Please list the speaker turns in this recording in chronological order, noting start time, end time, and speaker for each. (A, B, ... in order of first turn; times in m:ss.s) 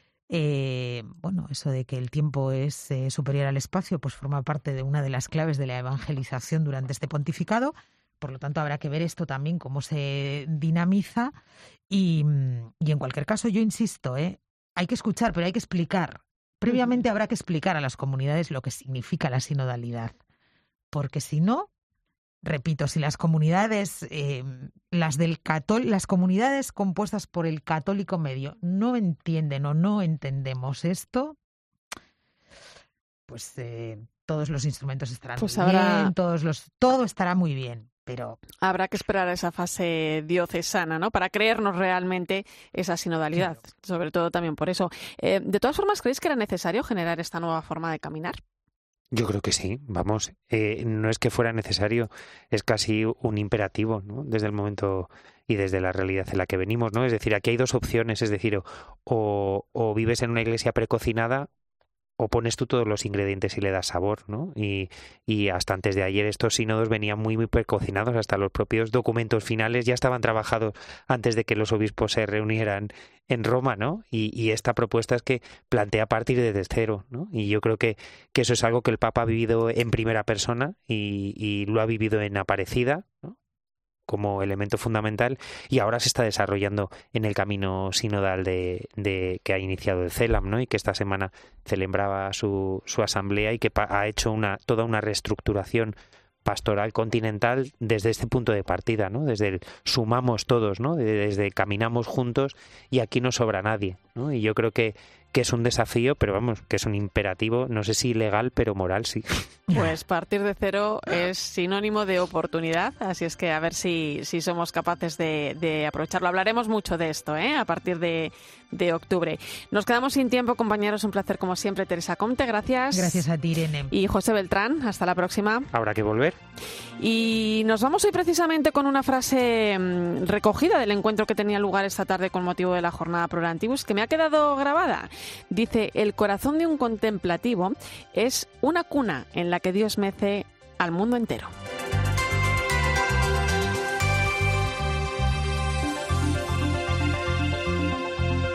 0:00.3-0:11.3 A
0:11.9-0:20.1 A
0:20.9-0:21.7 A
0:22.4-0:31.4 A
0:33.3-0:38.4 A
0:35.4-0:36.1 B
0:38.6-0:48.4 B
0:49.1-1:01.5 C
1:02.2-1:23.3 C
1:24.1-1:49.4 C
1:49.7-2:03.2 B
2:02.9-2:03.9 A
2:03.9-2:05.7 B
2:05.7-2:06.4 C
2:07.0-2:21.5 B